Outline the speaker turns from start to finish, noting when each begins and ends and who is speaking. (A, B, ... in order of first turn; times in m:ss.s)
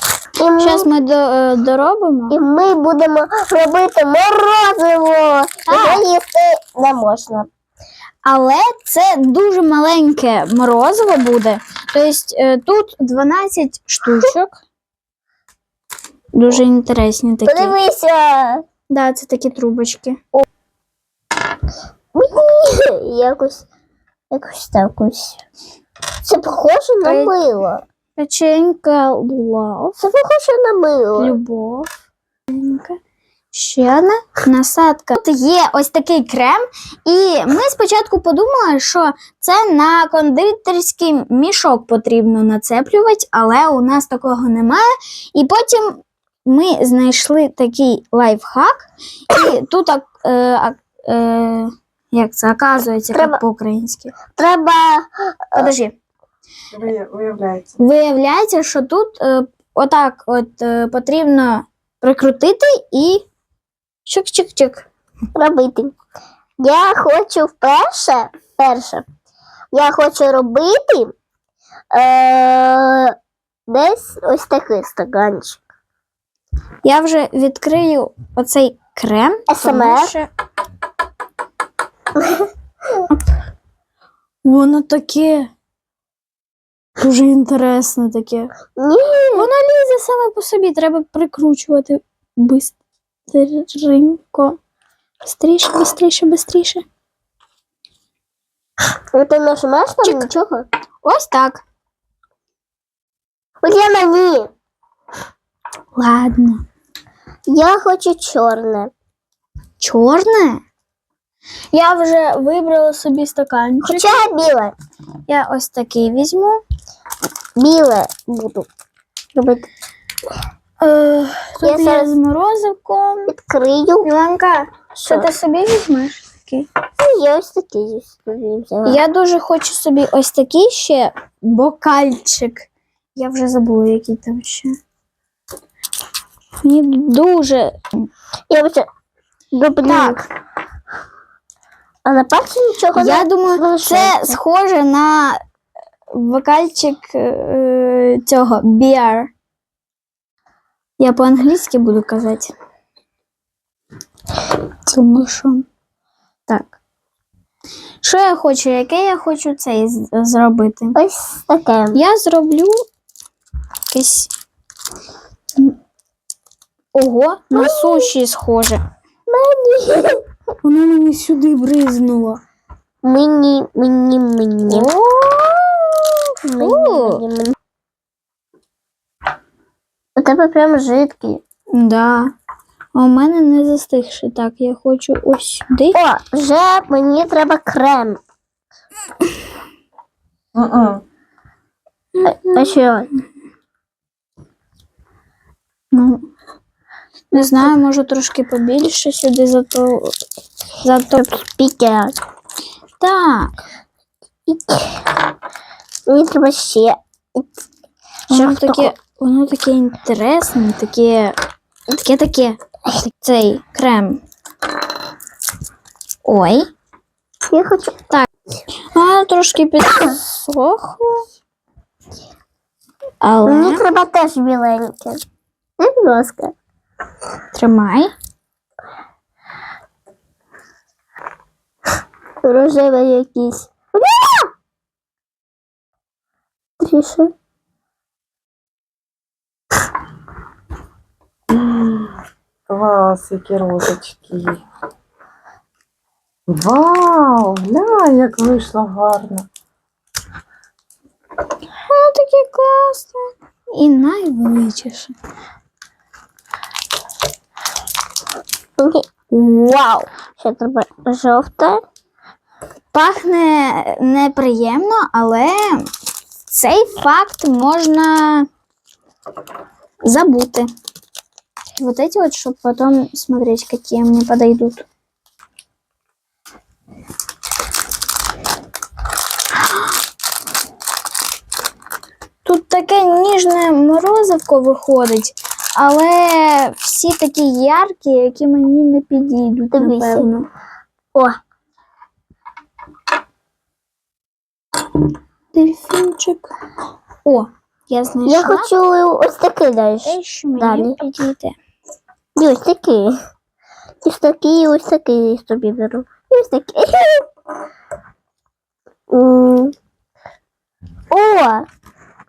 0:00.4-0:00.9 A
0:00.6-0:02.4 B
0:02.3-0:07.5 A
0:05.7-0:06.0 B
0:08.2-0:14.6 B
0:16.3-0:17.7 B
0:17.4-0:18.6 A
0:18.9-0:20.2 B
0:22.1-0:23.7 A
0:24.3-0:25.4 A
0:26.2-0:27.8 A
0:27.0-0:27.4 B
0:28.2-0:30.0 B
0:30.0-0:31.4 A
0:31.2-0:31.9 B
0:32.5-0:33.0 B
0:33.5-0:54.1 B
0:53.1-0:53.4 A
0:54.3-0:55.7 A
0:55.6-0:55.9 B
0:56.7-0:57.7 C
0:57.8-1:03.2 B
1:04.1-1:04.8 B
1:05.3-1:05.9 A
1:06.6-1:09.0 A
1:09.7-1:11.1 A
1:11.9-1:13.1 A
1:13.7-1:15.6 A
1:16.8-1:20.3 B
1:19.5-1:20.1 A
1:22.2-1:22.5 A
1:24.4-1:25.5 B
1:27.0-1:28.5 B
1:28.8-1:29.5 A
1:29.3-1:32.8 B
1:33.3-1:34.6 B
1:35.2-1:36.8 B
1:39.1-1:40.7 A
1:40.0-1:40.3 B
1:41.0-1:41.6 B
1:43.6-1:44.5 A
1:45.9-1:46.6 B
1:47.5-1:48.9 A
1:49.8-1:50.6 B
1:51.7-1:54.2 B
1:53.8-1:54.8 A
1:55.3-1:56.6 B
1:57.6-1:58.7 A
1:59.3-1:59.7 A
2:00.8-2:03.3 B
2:01.6-2:02.1 A
2:03.3-2:04.1 A
2:04.0-2:06.7 B
2:07.0-2:09.0 A
2:08.9-2:12.6 B
2:13.2-2:14.7 B
2:16.6-2:17.8 B
2:18.5-2:18.9 A
2:19.5-2:20.2 A
2:19.8-2:20.2 B
2:22.0-2:24.4 A
2:22.9-2:25.4 B
2:26.1-2:29.3 B
2:31.0-2:32.5 B
2:34.9-2:35.6 B
2:36.5-2:36.7 B
2:38.0-2:41.0 B
2:41.0-2:42.0 A
2:41.9-2:42.8 B
2:43.9-2:44.3 B
2:46.9-2:48.8 B
2:47.5-2:48.1 A
2:49.3-2:50.2 A
2:50.6-2:52.4 B
2:53.0-2:54.9 A
2:54.7-2:57.2 B
2:56.5-2:57.6 A
3:00.2-3:01.4 A
3:01.7-3:02.3 B
3:02.9-3:06.0 B
3:05.9-3:08.2 A
3:10.6-3:11.0 C
3:12.2-3:13.1 A
3:15.9-3:16.2 B
3:17.3-3:20.1 B
3:20.8-3:21.2 B
3:21.2-3:22.1 A
3:23.0-3:23.5 B
3:24.5-3:25.0 A
3:26.1-3:27.5 A
3:28.3-3:31.3 B
3:28.3-3:28.9 A
3:31.9-3:34.2 B
3:36.2-3:36.6 B
3:37.5-3:38.0 A
3:38.9-3:41.2 B
3:43.2-3:43.8 B
3:43.4-3:45.2 A
3:45.8-3:46.5 A
3:47.5-3:48.1 B
3:52.4-3:54.5 A
3:56.8-3:57.3 A
4:01.5-4:02.2 C
4:02.7-4:04.6 C
4:06.5-4:09.5 C
4:11.9-4:15.2 B
4:18.8-4:19.1 A
4:19.3-4:20.1 B
4:20.4-4:21.8 A
4:22.9-4:25.9 B
4:26.5-4:28.5 B
4:30.0-4:30.7 B
4:31.8-4:34.9 B
4:42.4-4:50.5 B
4:49.7-4:50.3 A
4:55.5-4:56.5 B
4:57.2-4:58.7 B
4:58.2-5:00.9 A
5:00.0-5:01.5 B
5:02.4-5:03.2 A
5:04.0-5:07.2 A
5:09.1-5:09.7 A
5:11.1-5:11.6 A